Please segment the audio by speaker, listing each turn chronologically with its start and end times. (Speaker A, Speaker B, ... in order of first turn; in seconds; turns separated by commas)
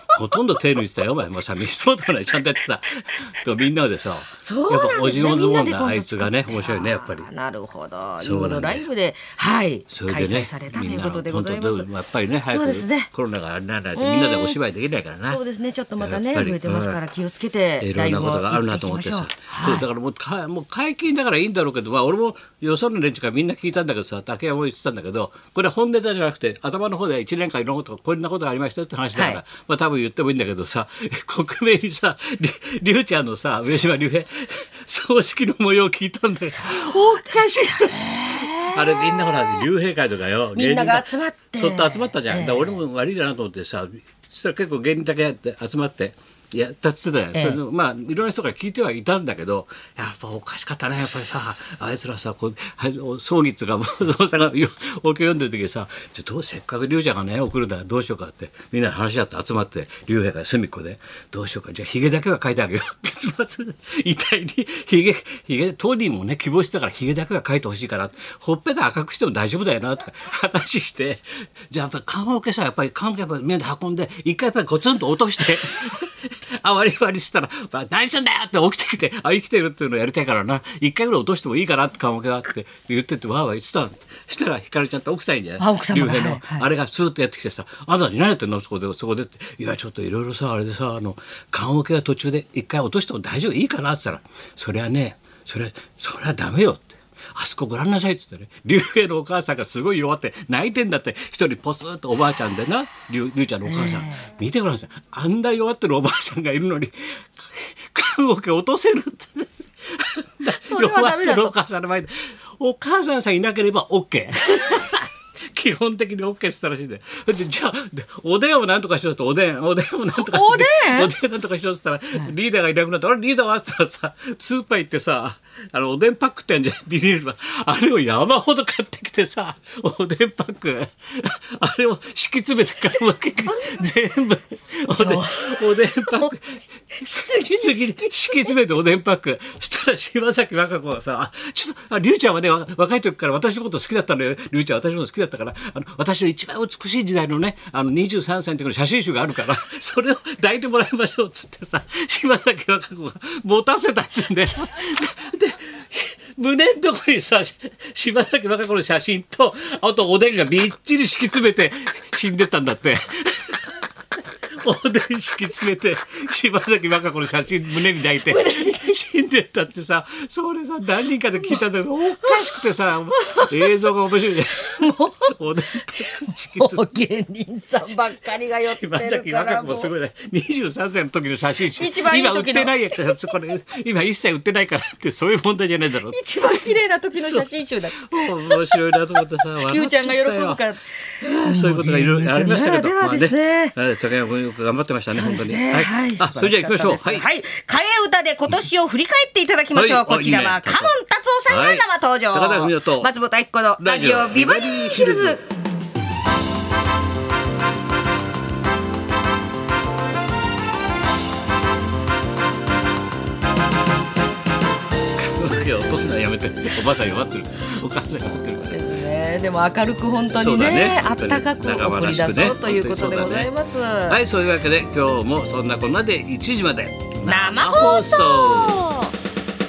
Speaker A: 0.1-7.2, Speaker B: 4.4-11.9, Speaker A: 8.2-8.9, Speaker A: 9.9-15.4, Speaker B: 12.4-13.1, Speaker B: 13.9-14.6, Speaker B: 15.3-19.9, Speaker A: 16.0-17.0, Speaker A: 17.8-163.8, Speaker B: 29.1-29.4, Speaker B: 36.4-39.6, Speaker B: 40.5-42.8, Speaker B: 47.3-47.6, Speaker B: 85.6-86.7, Speaker B: 103.7-104.3, Speaker B: 110.5-111.5, Speaker B: 120.1-121.1, Speaker B: 134.9-136.3, Speaker B: 136.9-138.6, Speaker A: 164.4-176.9, Speaker B: 168.2-168.9, Speaker B: 173.2-173.7, Speaker B: 174.8-175.3, Speaker B: 175.9-179.9, Speaker A: 178.6-186.2, Speaker B: 181.7-183.2, Speaker B: 186.1-193.8, Speaker A: 187.2-190.6, Speaker A: 191.4-197.3, Speaker B: 195.1-205.4, Speaker A: 199.7-200.9, Speaker A: 201.5-203.1, Speaker A: 203.8-205.4, Speaker A: 215.2-218.9, Speaker B: 218.7-224.2, Speaker A: 220.4-223.5, Speaker A: 224.1-228.8, Speaker B: 227.2-229.1